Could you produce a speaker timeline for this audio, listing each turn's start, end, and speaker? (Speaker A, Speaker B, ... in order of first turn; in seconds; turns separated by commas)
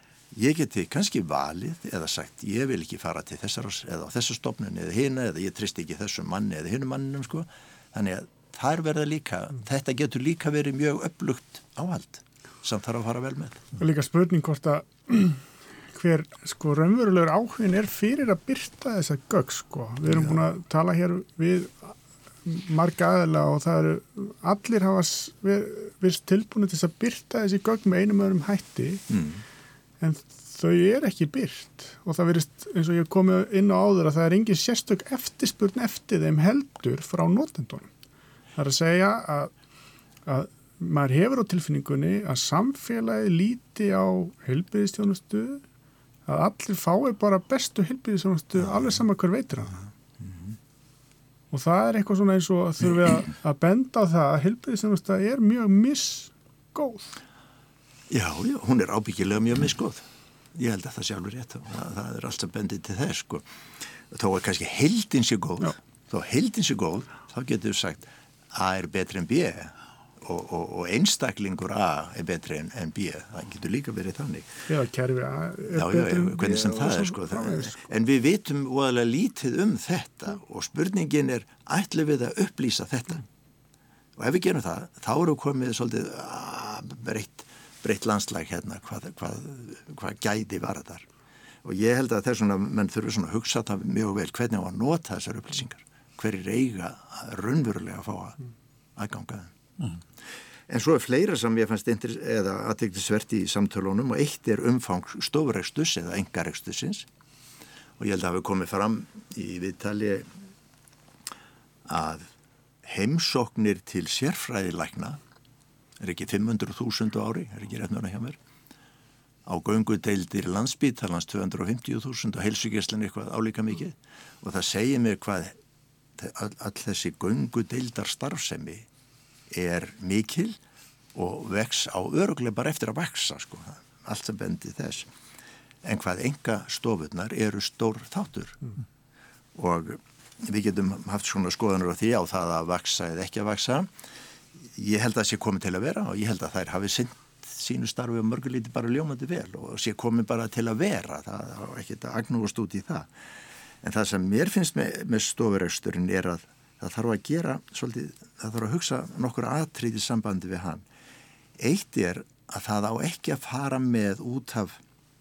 Speaker A: 0.3-13.6, Speaker B: 13.8-29.1, Speaker A: 29.1-29.4, Speaker B: 30.0-37.9, Speaker B: 38.5-39.5, Speaker B: 40.2-45.6, Speaker B: 46.2-49.8, Speaker A: 50.2-50.5, Speaker B: 51.5-57.1, Speaker A: 58.1-63.4, Speaker A: 64.1-74.5, Speaker B: 74.7-77.8, Speaker A: 75.7-83.2, Speaker A: 84.2-91.1, Speaker A: 91.6-98.4, Speaker A: 99.0-99.5, Speaker A: 100.7-107.1, Speaker A: 108.0-110.3, Speaker A: 111.8-112.3, Speaker A: 112.8-115.2, Speaker A: 116.0-118.4, Speaker A: 119.5-125.5, Speaker A: 126.2-128.9, Speaker A: 129.5-130.6, Speaker A: 131.1-135.1, Speaker A: 135.8-138.6, Speaker A: 139.5-143.9, Speaker A: 144.6-153.1, Speaker A: 153.8-160.8, Speaker A: 161.6-164.8